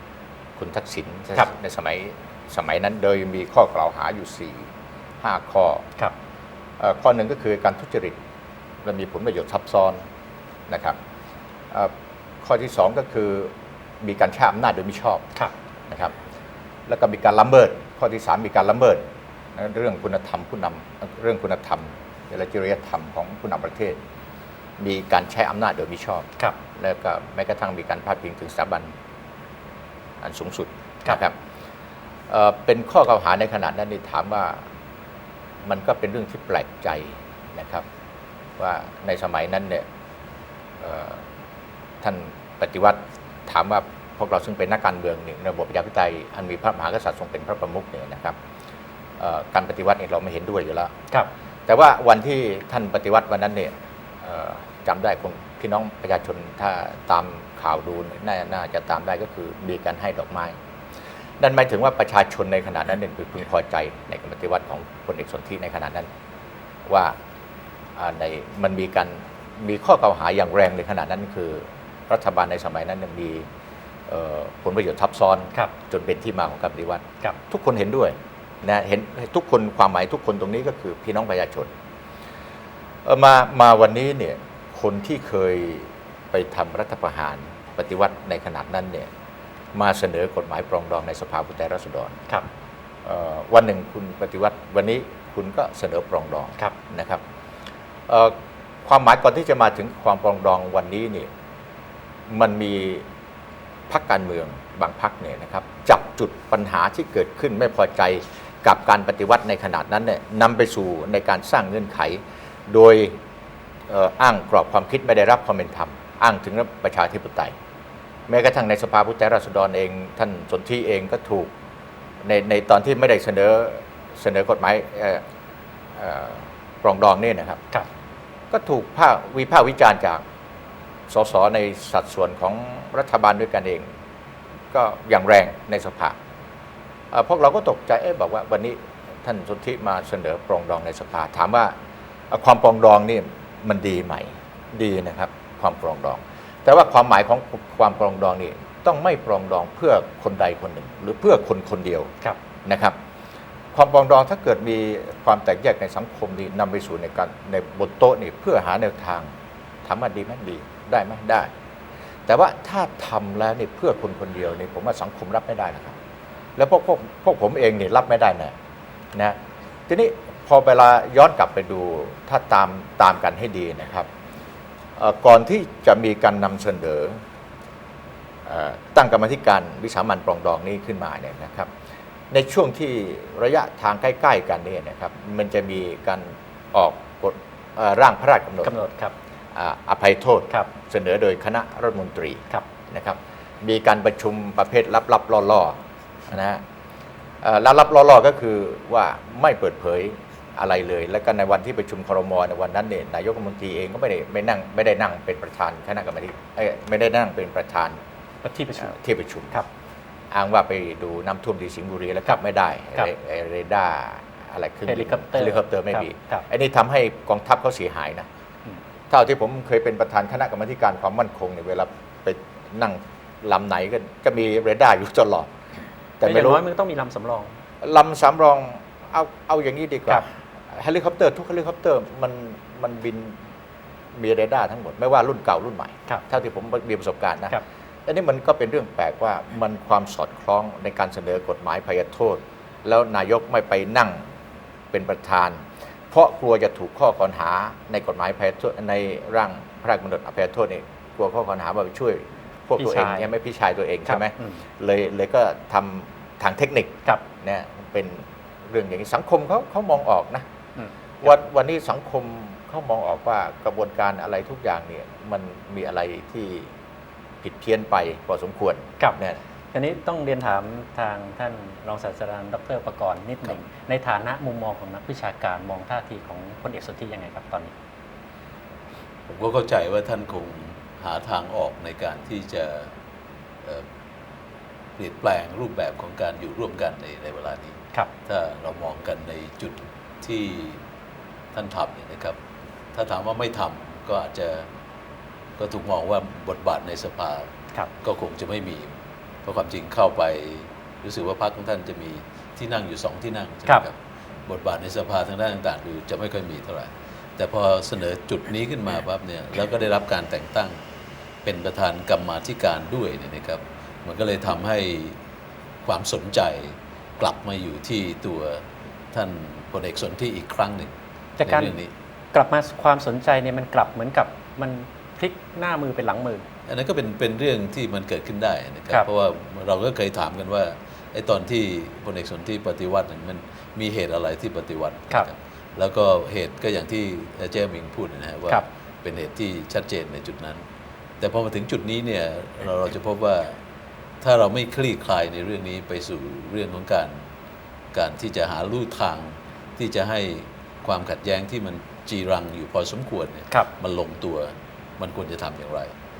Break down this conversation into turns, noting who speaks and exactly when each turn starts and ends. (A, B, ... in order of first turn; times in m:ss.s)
0:00.6-0:05.9 A
0:06.8-0:08.2 A
0:08.8-0:10.1 A
0:10.7-0:11.0 A
0:11.7-0:15.3 A
0:15.9-0:16.2 A
0:16.9-0:19.0 A
0:19.6-0:24.0 A
0:24.8-0:28.9 A
0:30.2-0:31.4 A
0:32.3-0:34.6 A
0:35.6-0:37.9 A
0:38.6-0:39.9 A
0:40.8-0:41.3 A
0:42.0-0:48.4 A
0:49.2-0:50.9 A
0:51.7-1:00.6 A
1:01.4-1:06.1 A
1:06.9-1:07.2 A
1:08.0-1:13.5 A
1:14.1-1:21.7 A
1:23.0-1:29.1 A
1:29.7-1:32.2 A
1:33.0-1:37.2 A
1:38.1-1:41.3 A
1:42.3-1:43.1 A
1:43.9-1:53.2 A
1:53.9-1:57.6 A
1:58.3-2:01.5 A
2:02.2-2:05.2 A
2:06.0-2:07.6 A
2:08.5-2:10.2 A
2:11.1-2:13.9 A
2:14.7-2:16.2 A
2:17.1-2:21.8 A
2:22.3-2:32.1 A
2:32.6-2:33.0 A
2:33.7-2:39.3 A
2:39.8-2:41.5 A
2:42.3-2:46.0 A
2:46.6-2:48.6 A
2:49.1-2:54.1 A
2:55.0-2:57.2 A
2:58.4-3:01.7 A
3:02.3-3:08.8 A
3:08.6-3:09.1 B
3:09.5-3:16.6 A
3:17.4-3:28.0 A
3:28.4-3:29.0 B
3:28.8-3:29.6 A
3:30.3-3:38.3 A
3:34.9-3:36.4 B
3:39.1-3:45.5 A
3:46.2-3:46.6 A
3:46.2-3:47.5 B
3:47.8-3:53.4 A
3:54.2-4:04.3 A
4:04.9-4:20.5 A
4:12.8-4:13.3 B
4:14.1-4:14.6 B
4:21.2-4:26.7 A
4:27.4-4:29.4 A
4:29.7-4:37.7 B
4:39.3-4:42.9 C
4:45.0-4:50.8 C
4:51.5-4:52.4 C
4:52.9-4:54.7 C
4:55.6-4:57.5 C
4:58.0-4:58.9 C
4:59.4-5:10.8 C
5:11.4-5:15.2 C
5:15.8-5:20.9 C
5:21.4-5:21.8 B
5:21.4-5:21.9 C
5:22.3-5:26.5 B
5:26.7-5:40.6 C
5:41.2-5:43.6 C
5:44.2-5:47.2 C
5:47.9-5:55.9 C